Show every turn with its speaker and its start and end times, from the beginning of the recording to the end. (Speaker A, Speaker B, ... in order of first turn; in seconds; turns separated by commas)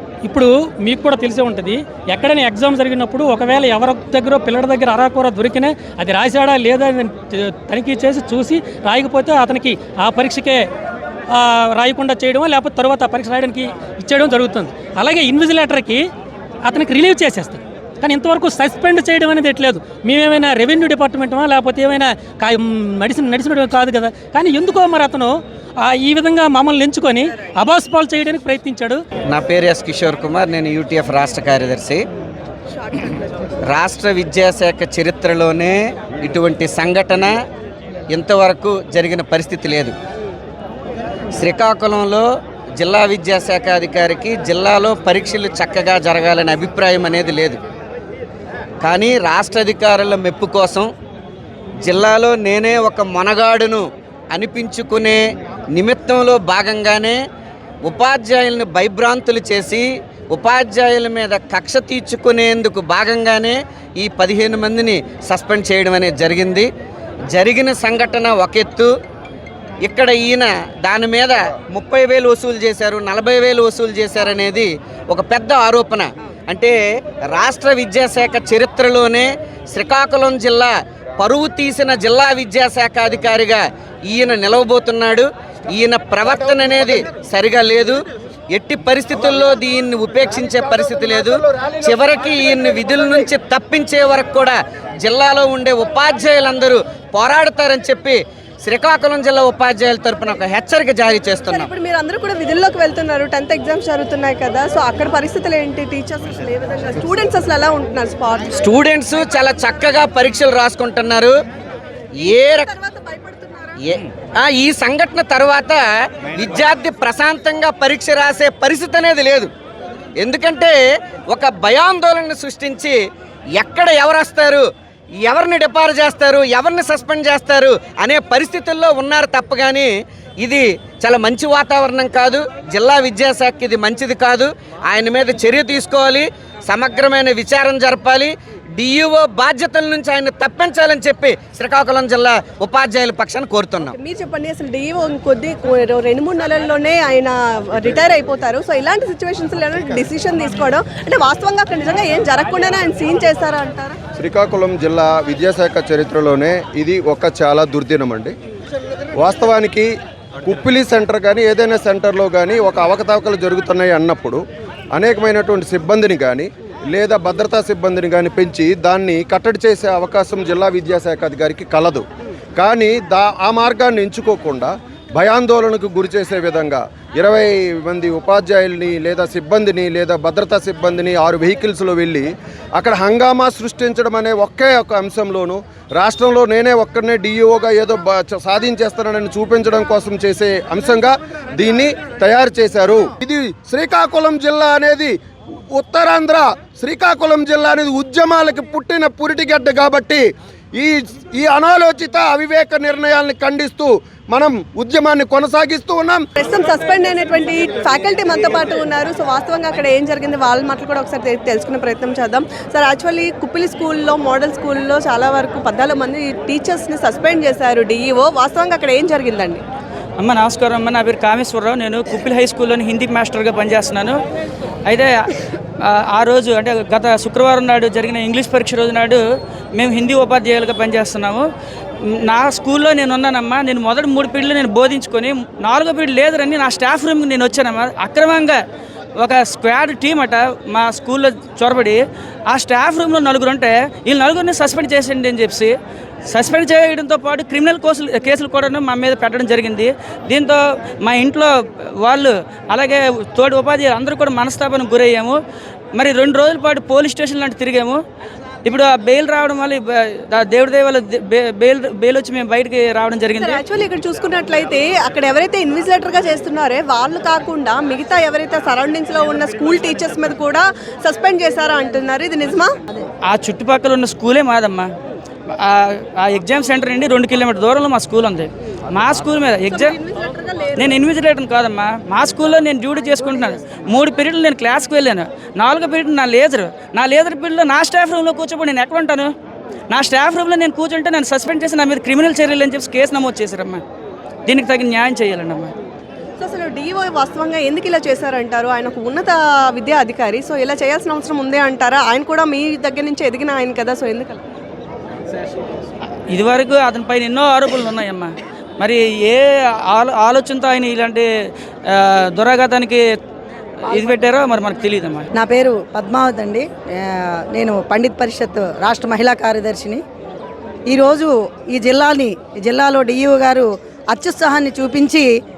Speaker A: 0.3-10.7, Speaker A: 11.3-16.1, Speaker A: 16.6-29.0, Speaker B: 29.3-32.0, Speaker B: 33.7-37.4, Speaker B: 38.1-39.9, Speaker B: 41.4-42.2, Speaker B: 42.8-47.6, Speaker B: 48.8-50.9, Speaker B: 51.9-55.2, Speaker B: 55.7-57.2, Speaker B: 57.9-66.7, Speaker B: 67.3-68.9, Speaker B: 69.8-76.8, Speaker B: 77.3-88.0, Speaker B: 88.5-101.7, Speaker C: 101.5-108.5, Speaker B: 108.6-111.3, Speaker B: 112.2-112.7, Speaker C: 112.7-113.8, Speaker B: 113.8-119.5, Speaker B: 120.2-120.8, Speaker B: 121.3-123.0, Speaker B: 123.6-124.7, Speaker B: 125.2-129.9, Speaker B: 130.4-143.9, Speaker C: 144.0-154.0, Speaker D: 154.2-158.3, Speaker D: 159.2-159.9, Speaker D: 160.4-164.4, Speaker D: 164.9-172.1, Speaker D: 172.6-195.2, Speaker D: 195.7-206.2, Speaker C: 206.4-219.6, Speaker E: 220.2-224.2, Speaker E: 224.9-229.2, Speaker E: 229.8-231.5, Speaker E: 232.0-238.6, Speaker E: 239.2-245.7, Speaker E: 246.3-255.4, Speaker E: 256.0-258.0, Speaker E: 258.6-263.6, Speaker C: 263.4-272.8, Speaker E: 273.3-274.9, Speaker E: 275.5-280.0, Speaker C: 279.7-281.0, Speaker E: 280.8-289.3, Speaker E: 289.9-293.8, Speaker E: 294.5-295.7, Speaker C: 296.4-304.4, Speaker E: 306.3-311.3, Speaker E: 311.9-313.1, Speaker E: 313.9-315.3, Speaker F: 315.4-320.0, Speaker F: 320.9-325.3